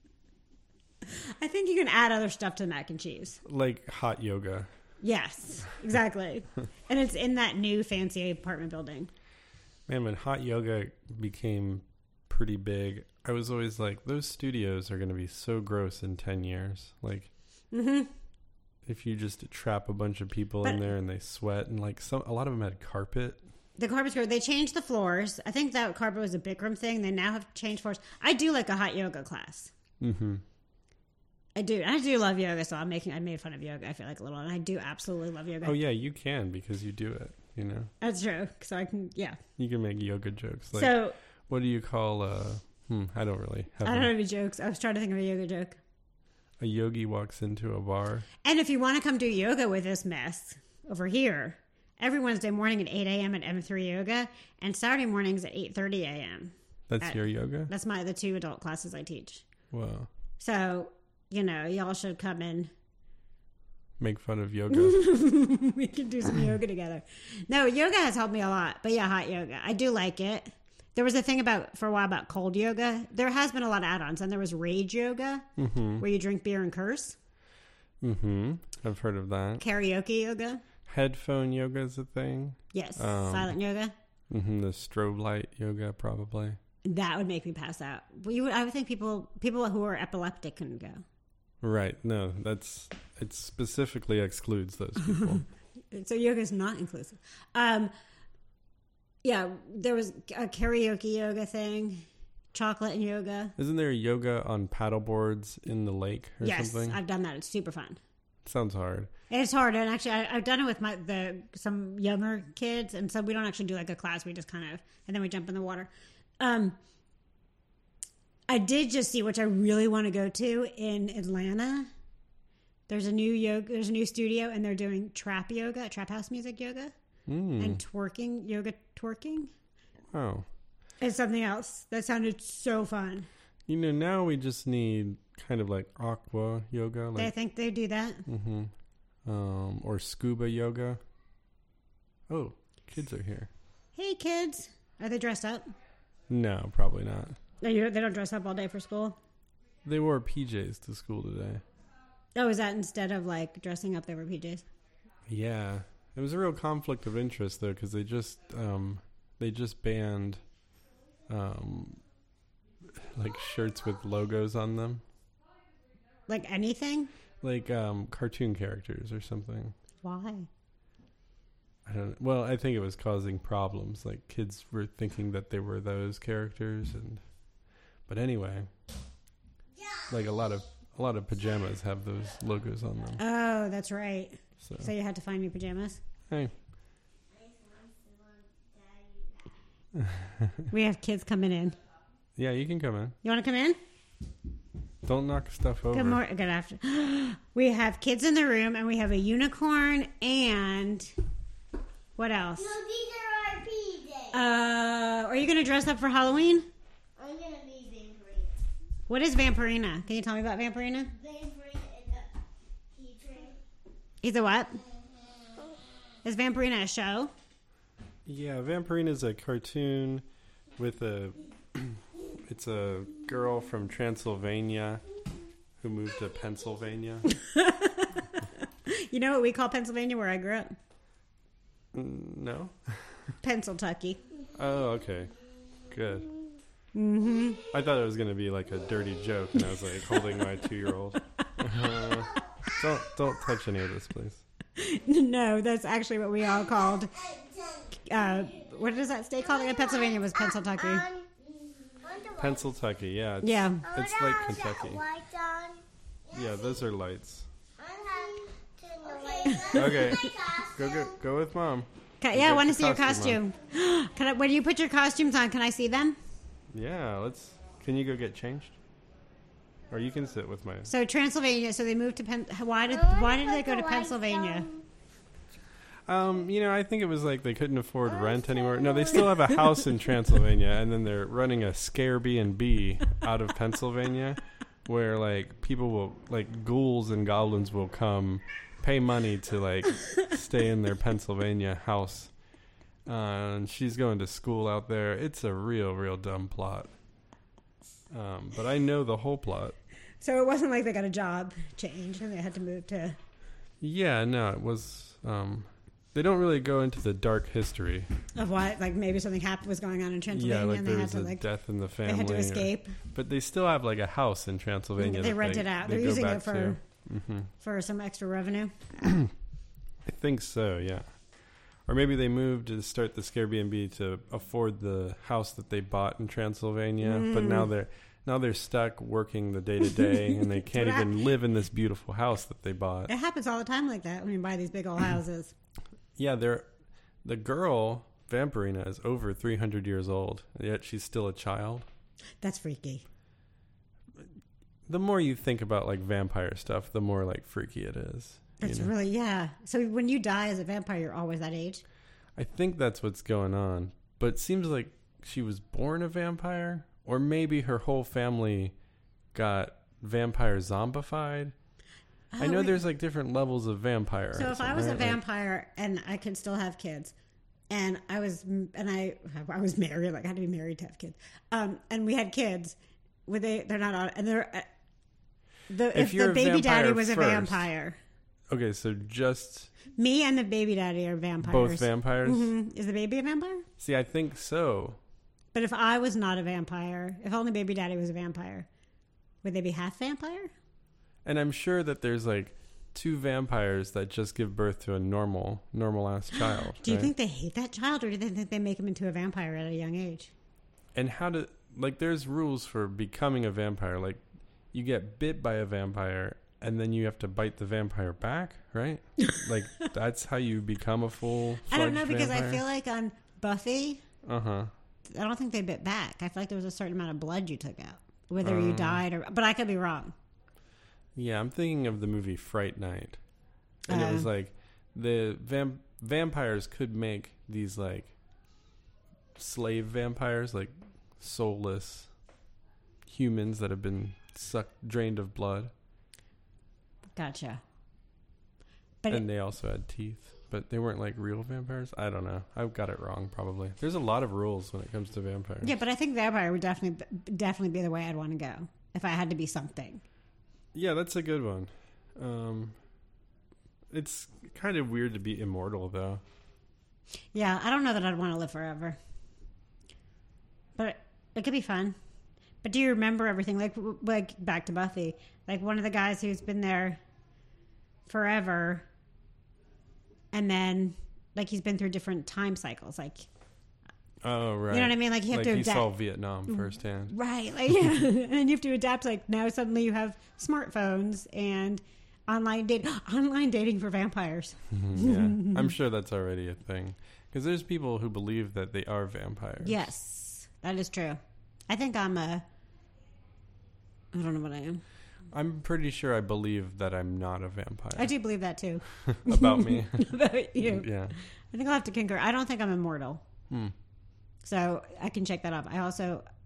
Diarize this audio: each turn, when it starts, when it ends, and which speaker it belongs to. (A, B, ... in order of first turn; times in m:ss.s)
0:01.0-0:03.4 A
0:03.4-0:04.7 B
0:05.0-0:09.1 A
0:09.9-0:17.3 B
0:17.7-0:18.1 A
0:18.8-0:23.4 B
0:23.8-0:29.7 A
0:30.0-0:30.4 B
0:31.6-0:35.8 A
0:35.6-0:37.9 B
0:38.0-0:39.4 A
0:39.6-0:41.0 B
0:40.7-0:41.2 A
0:41.5-0:44.1 B
0:43.8-0:45.8 A
0:46.6-0:48.3 B
0:48.4-0:59.4 A
0:56.9-0:57.7 B
0:59.7-1:00.1 B
1:00.4-1:02.7 A
1:04.0-1:05.0 B
1:04.7-1:15.5 A
1:15.6-1:16.0 B
1:16.0-1:17.2 A
1:18.0-1:19.6 B
1:19.6-1:20.6 A
1:20.9-1:23.5 B
1:22.7-1:23.9 A
1:24.3-1:26.6 B
1:26.8-1:31.0 A
1:31.6-1:35.4 B
1:35.0-1:37.9 A
1:39.2-1:43.6 A
1:43.6-1:47.0 B
1:46.4-1:48.0 A
1:48.4-1:49.1 B
1:49.3-1:56.8 A
1:58.5-2:01.9 A
2:02.9-2:06.9 A
2:07.3-2:07.8 B
2:07.6-2:09.5 A
2:10.1-2:10.5 B
2:11.0-2:13.3 A
2:13.7-2:17.3 B
2:17.2-2:18.2 A
2:18.3-2:18.7 B
2:19.2-2:21.0 B
2:22.3-2:23.5 B
2:24.0-2:25.7 A
2:26.3-2:27.4 B
2:27.6-2:29.2 A
2:29.8-2:31.6 B
2:32.4-2:34.6 A
2:35.3-2:40.4 B
2:41.3-2:42.0 B
2:42.9-2:45.0 B
2:46.3-2:47.1 A
2:47.4-2:49.8 B
2:50.0-2:50.5 A
2:51.9-2:57.2 B
2:58.1-2:58.7 B
2:59.8-3:00.2 C
3:00.1-3:03.2 B
3:03.2-3:06.0 A
3:04.6-3:04.9 B
3:07.3-3:09.6 C
3:10.0-3:10.7 B
3:10.7-3:11.8 A
3:12.4-3:13.2 B
3:13.2-3:13.8 A
3:15.0-3:16.2 B
3:15.9-3:21.1 A
3:22.2-3:22.7 A
3:22.6-3:24.4 C
3:24.3-3:26.7 A
3:27.2-3:28.5 C
3:29.1-3:31.1 A
3:31.1-3:32.3 C
3:32.9-3:33.6 C
3:34.2-3:34.8 A
3:36.2-3:37.3 A
3:38.3-3:40.2 B
3:40.8-3:45.0 B
3:45.8-3:47.3 B
3:47.3-3:50.8 A
3:51.9-3:53.3 B
3:53.4-3:54.2 A
3:54.6-3:55.3 B
3:55.9-3:56.3 B
3:56.9-3:57.6 A
3:57.7-4:04.4 B
3:59.8-4:00.2 A
4:01.9-4:02.8 C
4:04.8-4:07.1 A
4:06.6-4:08.7 C
4:08.0-4:11.1 A
4:09.4-4:12.7 C
4:12.4-4:15.0 B
4:13.4-4:14.0 A
4:13.9-4:16.7 C
4:16.3-4:17.5 B
4:17.8-4:21.2 C
4:19.4-4:20.3 A
4:19.8-4:23.4 B
4:22.2-4:26.2 A
4:26.7-4:28.8 B
4:29.9-4:30.9 B
4:30.9-4:34.7 A
4:32.9-4:34.8 C
4:36.1-4:52.3 B
4:38.2-4:39.3 C
4:53.1-4:56.9 B
4:58.1-4:59.8 B
5:00.2-5:03.2 A
5:03.8-5:08.1 B
5:08.4-5:11.4 A
5:10.3-5:17.5 B
5:12.0-5:13.0 A
5:15.0-5:16.8 A
5:17.6-5:18.9 A
5:19.0-5:19.3 B
5:20.0-5:21.2 B
5:21.9-5:33.1 B
5:27.0-5:27.7 A
5:30.0-5:31.1 A
5:33.1-5:35.5 A
5:36.2-5:36.7 B
5:37.2-5:41.9 B
5:42.4-5:43.0 A
5:44.9-5:48.9 B
5:48.6-5:51.8 A
5:52.4-5:58.8 B
5:59.3-6:01.6 B
6:02.3-6:02.8 A
6:02.4-6:05.2 B
6:04.4-6:07.1 A
6:07.7-6:14.7 A
6:15.7-6:18.0 A
6:15.9-6:17.7 B
6:18.5-6:19.7 B
6:20.0-6:23.7 A
6:21.4-6:22.5 B
6:23.8-6:25.0 B
6:25.5-6:28.7 A
6:29.4-6:30.5 A
6:31.2-6:37.1 B
6:36.8-6:40.3 A
6:41.0-6:52.6 B
6:49.3-6:49.9 A
6:51.7-6:54.0 A
6:54.2-6:54.7 B
6:55.1-7:00.1 A
6:58.4-6:59.0 B
7:01.2-7:03.2 B
7:03.9-7:08.1 B
7:03.9-7:04.3 A
7:09.4-7:12.1 B
7:13.1-7:15.7 B
7:17.2-7:17.6 A
7:19.1-7:25.8 B
7:25.6-7:30.0 A
7:30.7-7:32.8 B
7:33.9-7:36.2 B
7:37.3-7:39.0 A
7:40.8-7:42.0 A
7:42.6-7:47.0 A
7:48.1-7:48.9 A
7:50.3-7:53.3 A
7:54.2-7:57.1 B
7:54.7-7:55.9 A
7:56.5-8:05.7 A
8:04.7-8:09.9 B
8:09.6-8:12.4 A
8:14.1-8:14.8 A
8:15.3-8:18.1 B
8:18.0-8:23.2 A
8:18.9-8:21.2 B
8:24.4-8:26.2 A